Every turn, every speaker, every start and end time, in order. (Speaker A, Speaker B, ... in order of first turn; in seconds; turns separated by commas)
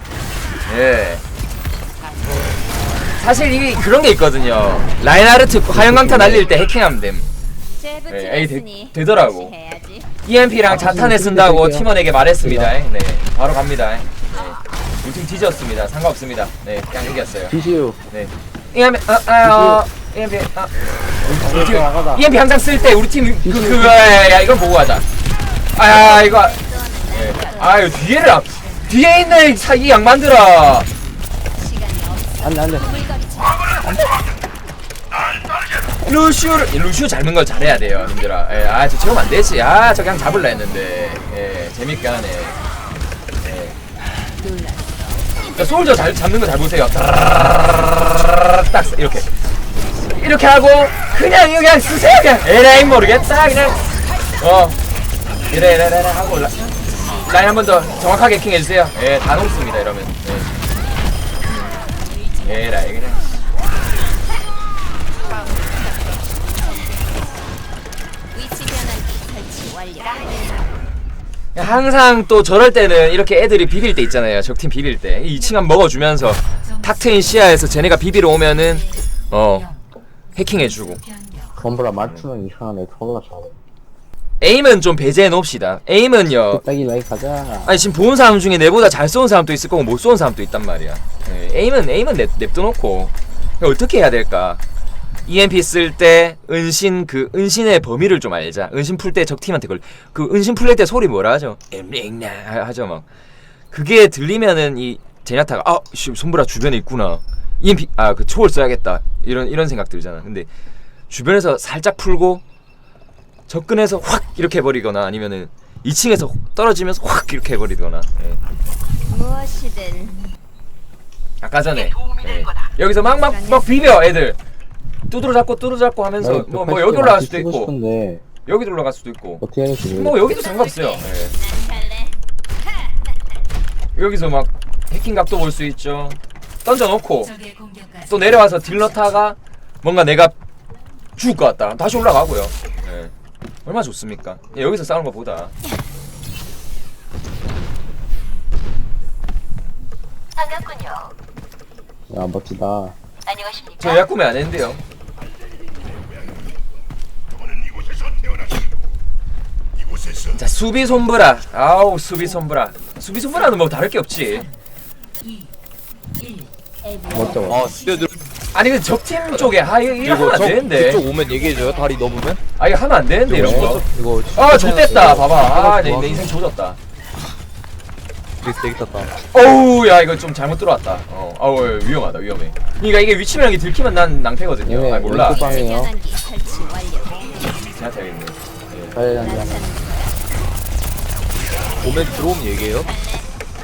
Speaker A: 0.7-1.2, Speaker A: 3.2-7.3, Speaker B: 5.7-6.5, Speaker C: 7.8-10.1, Speaker A: 8.1-9.5, Speaker A: 10.2-17.5, Speaker B: 10.6-12.7, Speaker B: 17.5-18.0, Speaker A: 18.1-20.7, Speaker B: 19.4-19.8, Speaker A: 21.2-25.0, Speaker B: 21.2-22.2, Speaker B: 23.4-24.1, Speaker A: 25.7-26.5, Speaker C: 25.9-28.0, Speaker A: 27.1-30.9, Speaker C: 31.5-33.7, Speaker B: 32.4-32.9, Speaker A: 36.0-42.6, Speaker A: 43.4-43.7, Speaker C: 44.4-45.3, Speaker A: 45.5-49.3, Speaker A: 50.1-53.8, Speaker C: 51.1-51.6, Speaker A: 54.4-54.8, Speaker A: 55.5-60.5, Speaker A: 62.4-63.3, Speaker C: 65.4-67.2, Speaker C: 68.3-70.7, Speaker A: 71.5-79.7, Speaker A: 80.3-81.0, Speaker B: 81.6-83.5, Speaker A: 84.4-86.6, Speaker B: 86.5-87.8, Speaker A: 87.6-94.6, Speaker A: 95.2-103.0, Speaker A: 103.7-110.5, Speaker A: 111.1-112.4, Speaker A: 113.5-118.4, Speaker C: 119.1-120.2, Speaker A: 121.4-124.4, Speaker C: 123.2-123.9, Speaker A: 125.1-127.7, Speaker B: 126.2-128.2, Speaker A: 128.4-131.3, Speaker B: 129.4-130.3, Speaker C: 130.3-132.2, Speaker A: 133.9-137.3, Speaker A: 138.1-140.3, Speaker A: 141.2-143.1, Speaker A: 143.7-145.5, Speaker B: 152.1-152.9, Speaker A: 153.8-154.8, Speaker A: 160.3-164.5, Speaker B: 167.1-167.7, Speaker D: 167.4-168.1, Speaker A: 168.5-171.0, Speaker D: 169.4-172.4, Speaker A: 172.6-176.8, Speaker D: 173.3-176.3, Speaker B: 173.3-173.7, Speaker B: 175.6-176.3, Speaker D: 178.4-179.1, Speaker A: 179.3-185.7, Speaker B: 184.6-185.9, Speaker C: 185.1-187.5, Speaker A: 187.6-188.9, Speaker B: 188.9-189.7, Speaker C: 189.2-190.2, Speaker D: 191.8-192.9, Speaker C: 192.7-193.3